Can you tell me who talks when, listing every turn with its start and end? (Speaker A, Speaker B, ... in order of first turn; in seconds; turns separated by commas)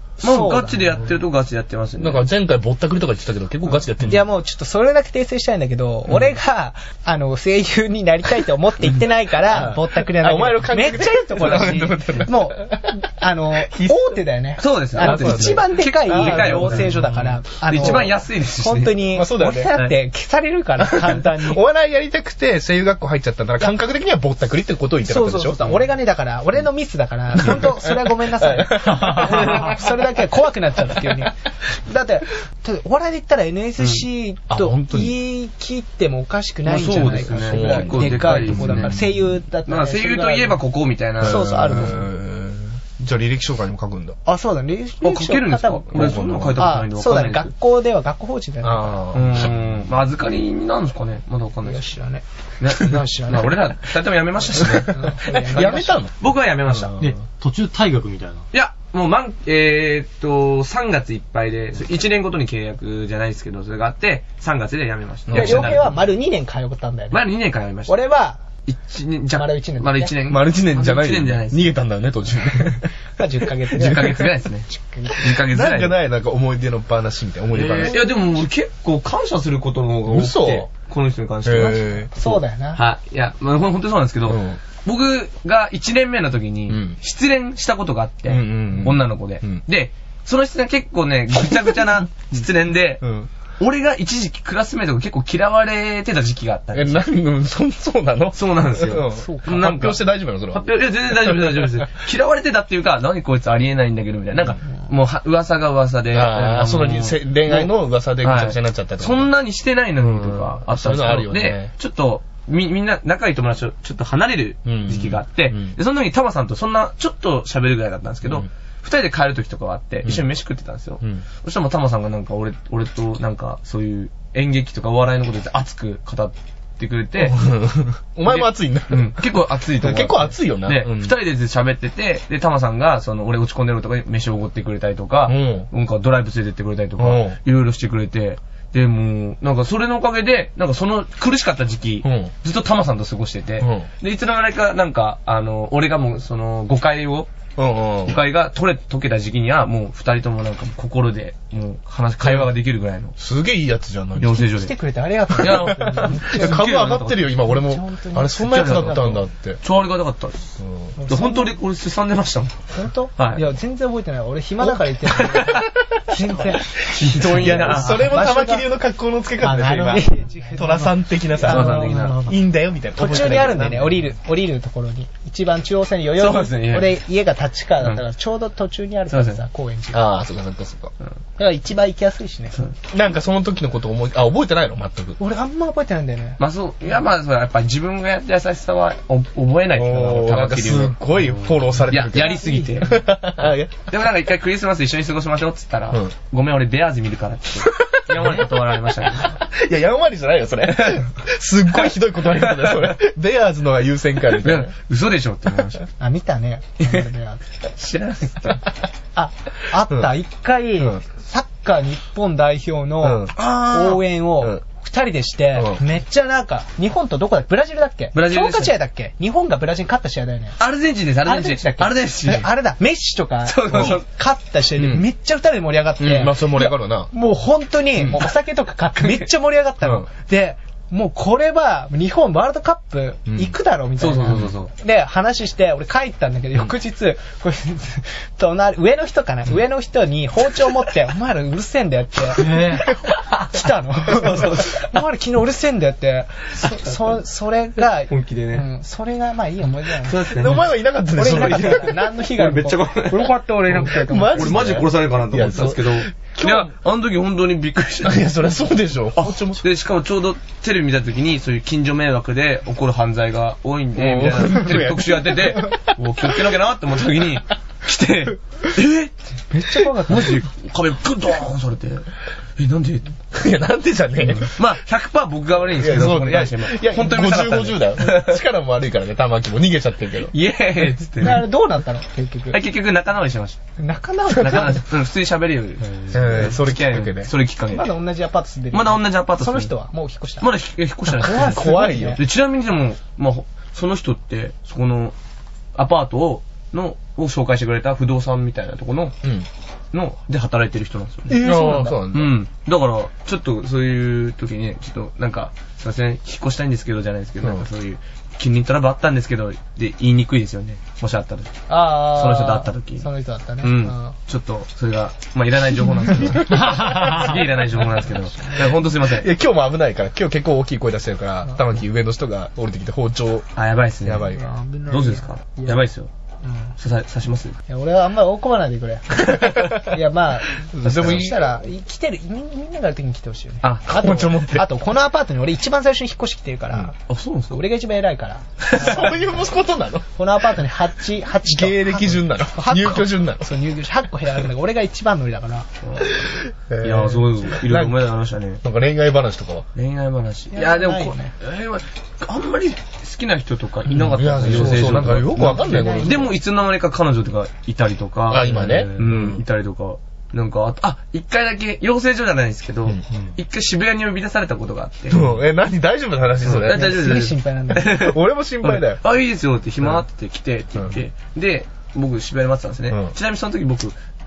Speaker A: 0.2-1.0, Speaker B: 0.2-2.2, Speaker C: 2.0-4.3, Speaker A: 4.1-21.6, Speaker C: 9.4-12.9, Speaker C: 13.6-14.2, Speaker B: 14.6-17.0, Speaker C: 14.9-18.1, Speaker B: 17.6-19.1, Speaker C: 19.1-19.7, Speaker C: 20.8-25.9, Speaker A: 25.1-40.6, Speaker C: 27.4-30.2, Speaker C: 30.9-31.2, Speaker C: 34.5-35.2, Speaker B: 36.6-39.1, Speaker C: 36.9-39.2, Speaker B: 39.6-41.9, Speaker C: 41.2-44.2, Speaker A: 41.2-42.1, Speaker A: 44.2-49.0, Speaker B: 45.0-47.5, Speaker C: 45.9-46.7, Speaker C: 48.6-49.5, Speaker B: 49.1-51.8, Speaker A: 51.6-53.6, Speaker B: 52.6-55.0, Speaker C: 54.5-57.1, Speaker A: 54.9-56.0, Speaker B: 55.5-57.0, Speaker D: 57.0-58.5, Speaker B: 58.5-66.0, Speaker C: 65.3-65.9, Speaker A: 65.3-67.3, Speaker B: 67.1-68.0, Speaker A: 67.8-68.4, Speaker B: 68.7-71.8, Speaker A: 69.3-70.1, Speaker C: 70.2-72.9, Speaker A: 73.2-75.4, Speaker C: 73.7-74.3, Speaker B: 73.7-75.9, Speaker C: 75.3-78.1, Speaker B: 77.5-93.0, Speaker A: 77.9-78.2, Speaker C: 80.0-80.7, Speaker C: 81.4-82.1, Speaker A: 82.2-82.8, Speaker C: 84.3-84.6, Speaker C: 86.7-87.0, Speaker C: 88.3-89.6, Speaker C: 93.0-93.3, Speaker B: 93.6-97.0, Speaker C: 96.7-101.7, Speaker B: 98.3-127.4, Speaker A: 99.1-99.5, Speaker C: 106.1-109.3, Speaker C: 110.0-111.7, Speaker C: 114.7-115.7, Speaker C: 127.2-129.2, Speaker B: 128.3-147.3, Speaker C: 129.8-131.1, Speaker C: 135.2-135.7, Speaker C: 137.0-137.4, Speaker C: 142.0-142.3, Speaker C: 143.6-143.9, Speaker C: 147.6-148.2, Speaker B: 148.0-153.2, Speaker C: 152.2-152.5, Speaker C: 153.2-154.5, Speaker B: 154.2-154.7, Speaker A: 154.6-156.7, Speaker B: 155.4-157.3, Speaker C: 155.4-159.6, Speaker A: 157.3-159.2, Speaker B: 158.5-160.5, Speaker C: 160.6-160.9, Speaker A: 161.0-161.5, Speaker B: 161.1-162.5, Speaker A: 162.7-168.7, Speaker B: 163.2-163.4, Speaker B: 165.1-165.7, Speaker B: 166.7-168.1, Speaker C: 167.2-174.0, Speaker A: 169.4-172.2, Speaker B: 171.4-172.3, Speaker D: 171.4-172.4, Speaker A: 172.9-180.1, Speaker D: 173.1-173.8, Speaker B: 176.2-177.0, Speaker B: 179.1-179.4, Speaker C: 179.9-180.9, Speaker A: 181.4-182.6, Speaker C: 182.9-185.2, Speaker A: 185.2-186.4, Speaker B: 186.4-191.0, Speaker C: 189.7-193.9, Speaker B: 191.9-193.0, Speaker A: 192.1-193.0, Speaker B: 193.9-199.4, Speaker C: 197.6-204.7, Speaker B: 202.3-202.9, Speaker B: 204.3-205.8, Speaker A: 206.0-207.4, Speaker B: 207.7-208.6, Speaker A: 209.1-220.6, Speaker C: 210.8-211.0, Speaker C: 213.0-213.4, Speaker B: 213.3-214.0, Speaker C: 215.5-215.8, Speaker B: 218.1-218.7, Speaker B: 220.6-222.5, Speaker A: 221.2-250.6, Speaker B: 223.4-224.0, Speaker C: 223.7-224.0, Speaker C: 224.8-225.0, Speaker C: 226.0-227.1, Speaker B: 228.0-228.2, Speaker C: 233.3-233.5, Speaker B: 234.0-234.7, Speaker D: 242.3-242.9, Speaker B: 242.5-245.0, Speaker B: 246.6-246.9, Speaker B: 248.1-248.7, Speaker B: 250.0-250.7, Speaker C: 250.3-251.9, Speaker A: 251.1-254.8, Speaker B: 251.2-258.4, Speaker C: 253.8-256.7, Speaker C: 258.0-259.6, Speaker B: 259.1-269.1, Speaker C: 263.9-265.8, Speaker A: 269.5-270.4, Speaker B: 270.1-273.1, Speaker C: 273.3-274.6, Speaker B: 274.3-278.4, Speaker C: 275.8-280.3, Speaker B: 280.3-281.4, Speaker A: 281.2-282.6, Speaker B: 282.5-283.6, Speaker A: 283.8-284.8, Speaker B: 284.4-287.9, Speaker C: 286.1-287.3, Speaker A: 287.7-290.5, Speaker B: 288.7-289.7, Speaker B: 290.4-295.1, Speaker A: 291.1-292.2, Speaker C: 291.1-292.2, Speaker B: 295.7-299.1, Speaker C: 299.2-299.5, Speaker B: 299.9-301.4, Speaker A: 301.3-302.0, Speaker C: 301.3-302.4, Speaker B: 302.1-313.1, Speaker A: 311.7-314.1, Speaker B: 313.6-319.3, Speaker C: 316.2-317.5, Speaker C: 318.9-323.5, Speaker B: 323.6-324.3, Speaker C: 324.0-324.5, Speaker A: 324.3-325.8, Speaker B: 324.9-326.1, Speaker A: 326.4-326.7, Speaker B: 326.8-327.6, Speaker A: 327.7-336.9, Speaker C: 329.4-329.6, Speaker C: 330.7-331.5, Speaker B: 330.9-331.2, Speaker B: 333.6-334.4, Speaker C: 333.9-334.6, Speaker B: 337.1-337.6, Speaker A: 337.5-339.4, Speaker B: 338.7-339.1, Speaker C: 338.7-340.1, Speaker A: 340.1-345.7, Speaker C: 341.4-343.5, Speaker B: 345.8-346.2, Speaker C: 346.1-348.0, Speaker B: 346.8-348.6, Speaker C: 348.6-349.6, Speaker B: 349.7-365.2, Speaker A: 350.5-351.3, Speaker C: 353.9-356.3, Speaker A: 355.4-356.3, Speaker C: 358.3-359.4, Speaker D: 358.4-359.1, Speaker C: 365.1-367.1, Speaker B: 366.4-373.9, Speaker A: 366.6-368.1, Speaker C: 367.8-369.0